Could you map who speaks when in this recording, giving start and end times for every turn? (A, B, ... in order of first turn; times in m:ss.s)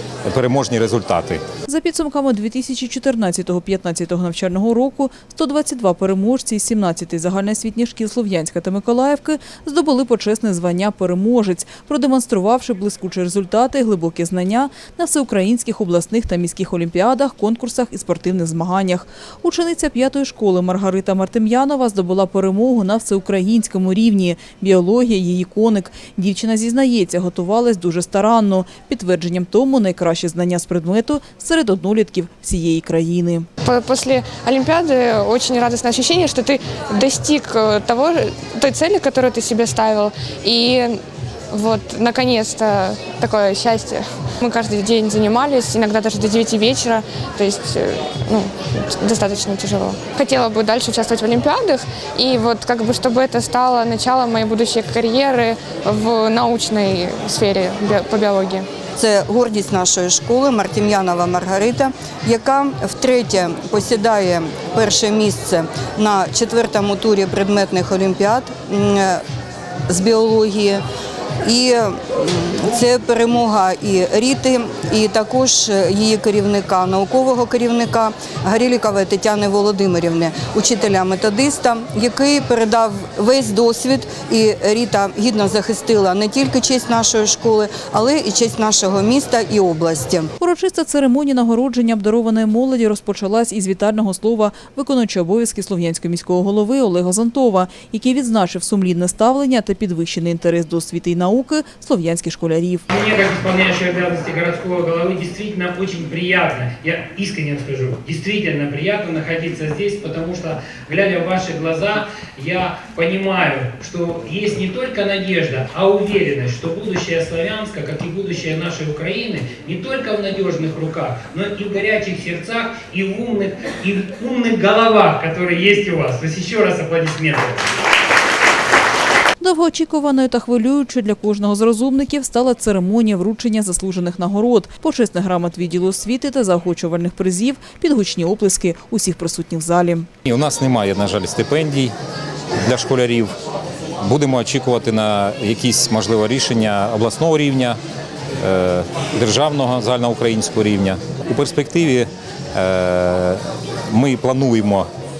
0:00.2-0:01.4 A
0:01.7-0:33.5 B
0:33.6-0:58.7 C
0:59.0-1:09.2 D
1:09.9-1:10.8 D
1:11.4-1:30.3 D
1:30.4-1:42.8 B
1:42.9-2:07.7 E
2:09.4-2:20.1 B
2:20.2-2:21.9 A
2:22.6-2:23.3 A
2:24.0-2:27.8 A
2:28.4-2:34.9 A